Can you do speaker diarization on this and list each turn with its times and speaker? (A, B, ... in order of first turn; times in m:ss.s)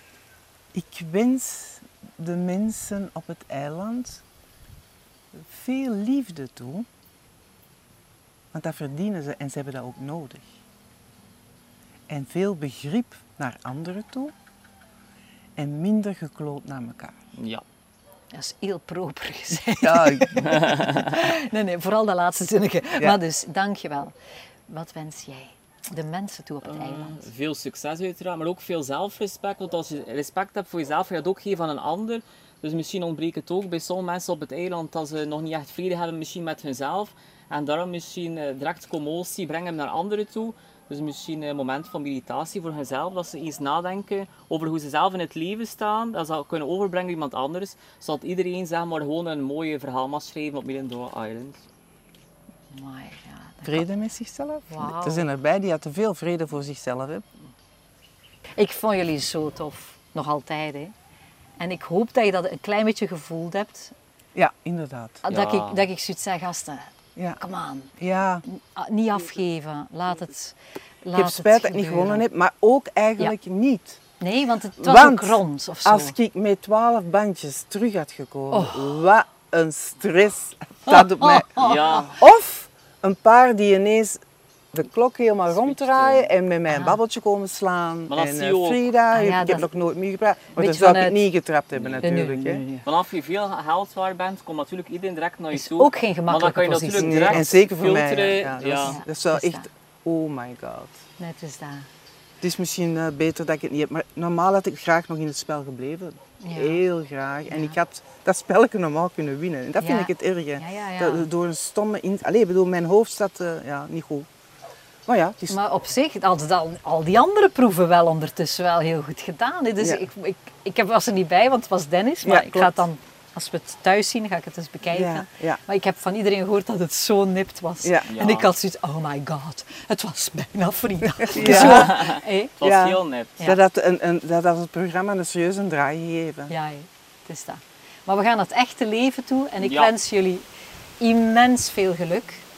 0:00.7-0:04.2 A
0:05.4-0:06.9 A
0:08.5-0:10.4 A
0:12.1-0:14.3 A
0:15.6-0:17.1 A
0:17.4-0:17.6 B
0:18.3-0:24.1 C
0:19.5-0:20.6 A
0:20.5-0:20.9 B
0:24.7-0:27.3 C
0:26.6-0:51.6 B
0:52.7-0:53.9 C
0:53.6-0:57.2 A
0:54.7-0:55.2 C
0:58.6-1:00.9 C
1:01.6-1:03.9 C
1:04.4-1:05.2 A
1:05.2-1:06.9 C
1:05.3-1:05.8 B
1:07.4-1:07.9 C
1:08.0-1:08.4 A
1:08.5-1:12.2 C
1:11.1-1:14.0 A
1:14.2-1:16.2 C
1:14.8-1:24.2 A
1:18.5-1:19.0 C
1:20.9-1:22.1 C
1:21.6-1:22.2 B
1:24.7-1:32.8 A
1:25.5-1:26.3 B
1:26.7-1:27.0 C
1:28.1-1:28.9 B
1:29.1-1:29.7 C
1:30.6-1:31.2 C
1:31.7-1:32.1 B
1:32.0-1:32.7 C
1:32.8-1:39.0 B
1:35.5-1:37.4 C
1:37.0-1:40.9 A
1:38.8-1:39.7 C
1:41.2-1:41.9 C
1:42.4-1:54.3 A
1:46.4-1:46.8 C
1:47.5-1:47.8 C
1:49.8-1:51.3 C
1:55.1-1:55.6 A
1:55.5-2:12.5 C
1:59.8-2:00.0 A
2:02.2-2:02.9 A
2:04.9-2:05.6 A
2:07.8-2:08.1 A
2:08.1-2:08.5 B
2:11.2-2:12.1 A
2:11.4-2:13.4 B
2:12.6-2:16.5 A
2:16.5-2:20.4 C
2:19.6-2:19.9 B
2:21.0-2:22.4 C